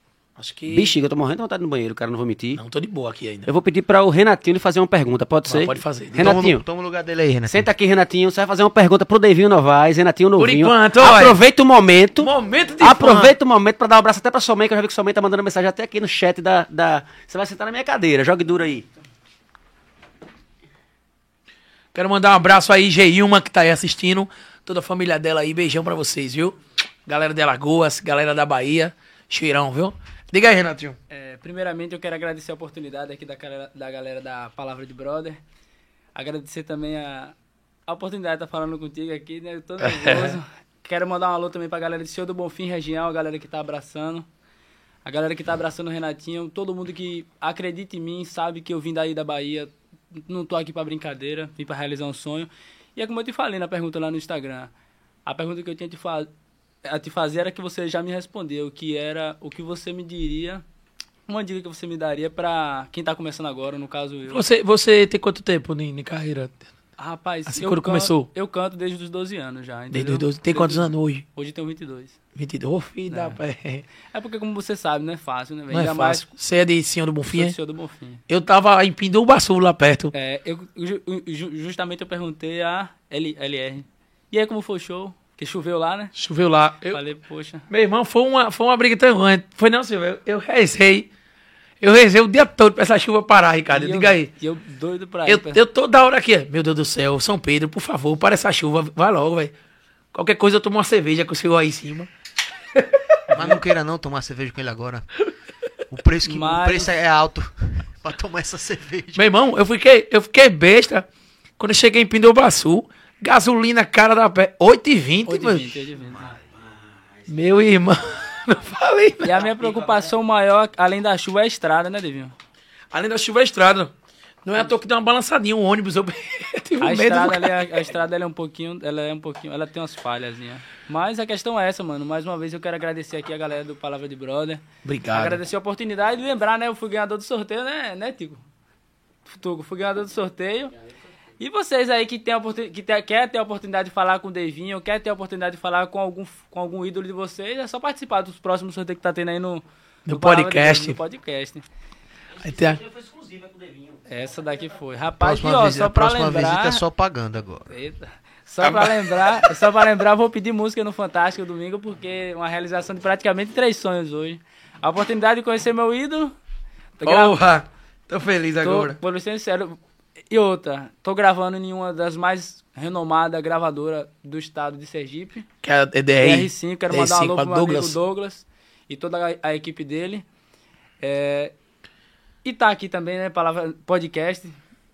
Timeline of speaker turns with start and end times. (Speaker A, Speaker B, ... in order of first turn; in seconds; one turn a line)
Speaker A: 0.4-0.9
Speaker B: 0.7-2.6
Speaker A: 2.5-3.5
Speaker B: 3.5-6.6
Speaker A: 5.5-6.4
Speaker C: 6.2-7.7
Speaker B: 7.5-12.3
Speaker A: 10.4-11.4
Speaker A: 12.2-13.3
Speaker B: 12.8-18.9
Speaker A: 21.9-31.0
Speaker D: 31.1-35.4
Speaker D: 36.1-37.4
Speaker D: 37.9-44.3
Speaker A: 39.8-40.4
Speaker D: 45.0-54.7
Speaker D: 55.2-56.3
Speaker D: 56.8-60.6
Speaker D: 61.3-64.4
Speaker A: 64.3-66.6
Speaker D: 67.0-72.2
Speaker A: 67.5-68.3
Speaker A: 69.9-71.2
Speaker A: 72.3-73.8
Speaker D: 73.1-73.4
Speaker D: 74.0-76.2
Speaker A: 75.7-77.5
Speaker D: 77.3-78.2
Speaker A: 78.3-80.1
Speaker D: 80.1-86.1
Speaker A: 86.2-87.0
Speaker D: 86.9-87.6
Speaker A: 87.7-91.1
Speaker A: 91.8-94.3
Speaker D: 93.7-95.6
Speaker A: 95.2-99.5
Speaker A: 100.1-102.1
Speaker A: 102.8-103.5
Speaker C: 103.3-105.1
Speaker C: 105.9-109.2
Speaker D: 106.2-106.9
Speaker A: 109.1-111.0
Speaker A: 111.6-115.7
Speaker D: 115.2-116.3
Speaker A: 117.3-119.6
Speaker D: 119.2-122.3
Speaker A: 122.9-123.9
Speaker A: 124.4-127.6
Speaker D: 126.8-138.4
Speaker A: 134.8-135.4
Speaker D: 139.3-140.7
Speaker D: 141.4-151.6
Speaker A: 150.1-151.0
Speaker A: 152.4-152.8
Speaker B: 152.8-153.9
Speaker D: 154.1-156.8
Speaker C: 155.2-157.7
Speaker D: 157.7-166.3
Speaker A: 158.6-159.4
Speaker D: 167.0-167.3
Speaker A: 167.0-169.0
Speaker D: 168.6-169.8
Speaker D: 170.3-175.5
Speaker A: 175.6-178.0
Speaker D: 176.2-180.2
Speaker D: 181.0-181.5
Speaker D: 182.4-184.6